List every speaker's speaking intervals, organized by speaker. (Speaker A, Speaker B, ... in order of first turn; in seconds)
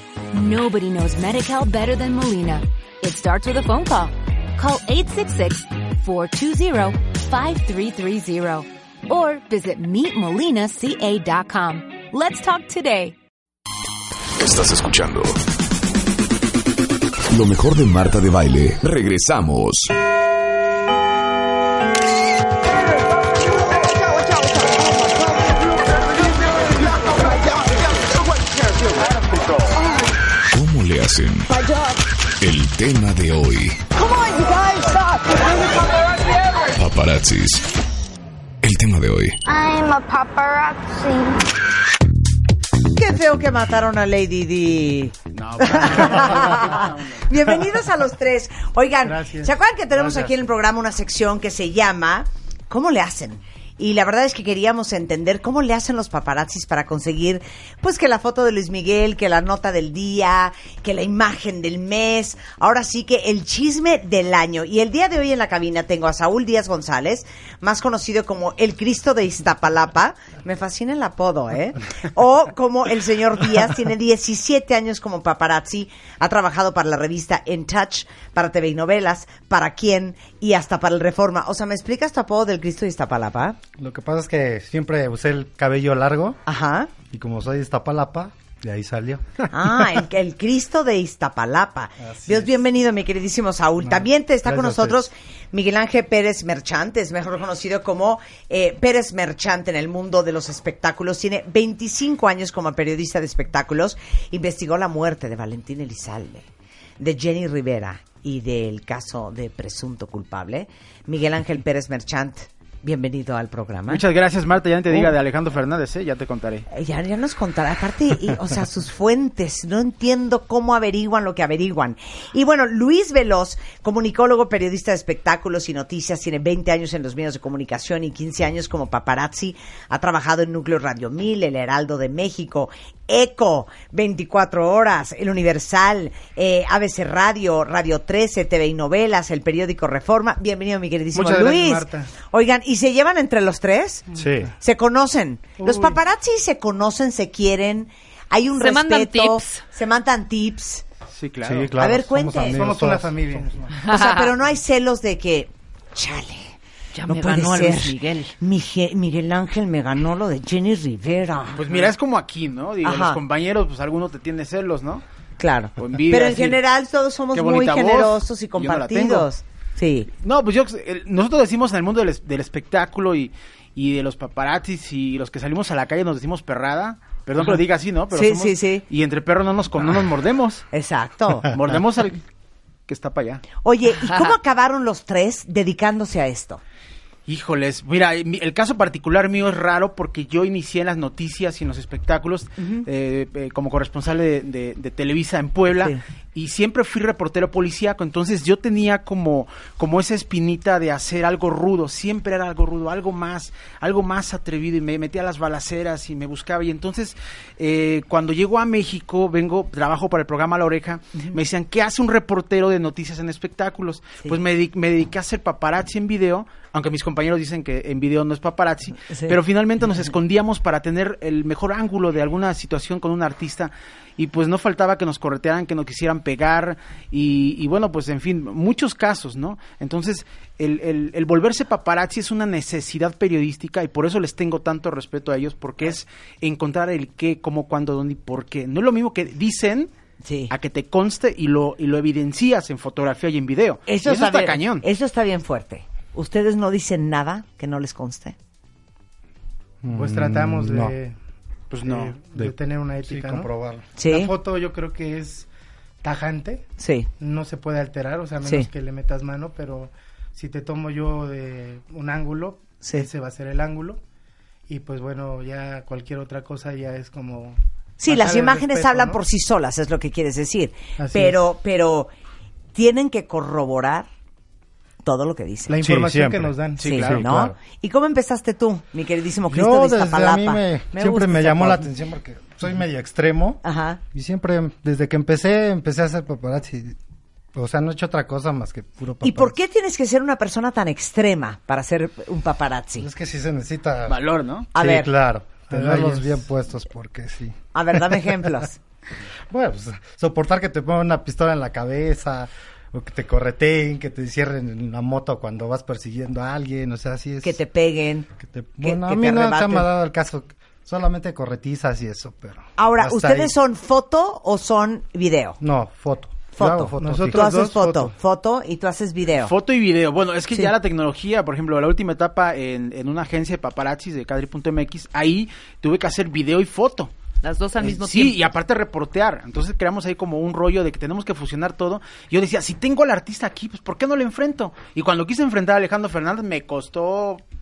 Speaker A: 0.3-13.2
Speaker B: 14.4-15.4, 17.3-19.9, 30.5-31.5, 32.4-33.8, 36.8-37.6, 38.6-39.4
Speaker C: 23.7-27.8, 29.7-30.1, 31.5-32.0, 34.0-36.2, 39.5-41.4
Speaker D: 42.9-83.6, 86.5-86.9, 89.5-106.5, 107.0-114.0, 116.7-144.1, 144.6-150.8, 151.8-152.6, 153.8-156.5, 157.1-161.9, 162.8-163.2, 165.4-170.1, 177.4-178.8, 180.7-181.5, 183.6-186.6, 195.8-196.0, 219.1-219.4, 240.2-240.5, 243.9-248.4, 254.0-254.3, 256.8-257.1, 268.0-272.1, 272.7-274.1, 275.0-275.7, 276.8-281.8, 283.6-284.0, 289.2-293.1, 294.7-295.1, 297.7-298.8, 307.4-308.3, 308.8-309.9, 312.8-315.6, 316.6-319.5
Speaker E: 45.3-47.3, 113.9-116.7, 151.1-151.7, 161.6-165.0, 165.8-166.6, 167.3-169.3, 170.2-180.7, 181.5-182.2, 182.9-183.5, 184.0-184.3, 187.3-239.9, 240.5-244.8, 251.7-252.1, 276.8-277.2, 294.1-294.7, 319.4-327.1, 327.8-337.4
Speaker F: 49.0-49.5, 141.1-142.1, 145.6-146.0, 152.4-153.7, 249.9-251.2, 251.8-253.5, 254.1-255.5, 256.0-256.6, 257.2-264.0, 264.7-269.2, 271.0-271.4, 275.7-277.0, 295.7-296.4, 317.0-318.1
Speaker G: 83.8-86.4, 87.1-90.0, 92.0-92.5, 93.8-95.1, 144.2-144.5, 151.4-153.6, 249.8-250.9, 253.1-253.9, 275.8-277.6, 279.5-283.6, 284.1-287.0, 287.5-289.6, 293.0-294.2, 294.8-298.4, 299.5-307.6, 308.4-313.5, 315.6-317.4
Speaker H: 148.6-149.6, 153.7-154.3, 156.9-158.3, 327.4-328.4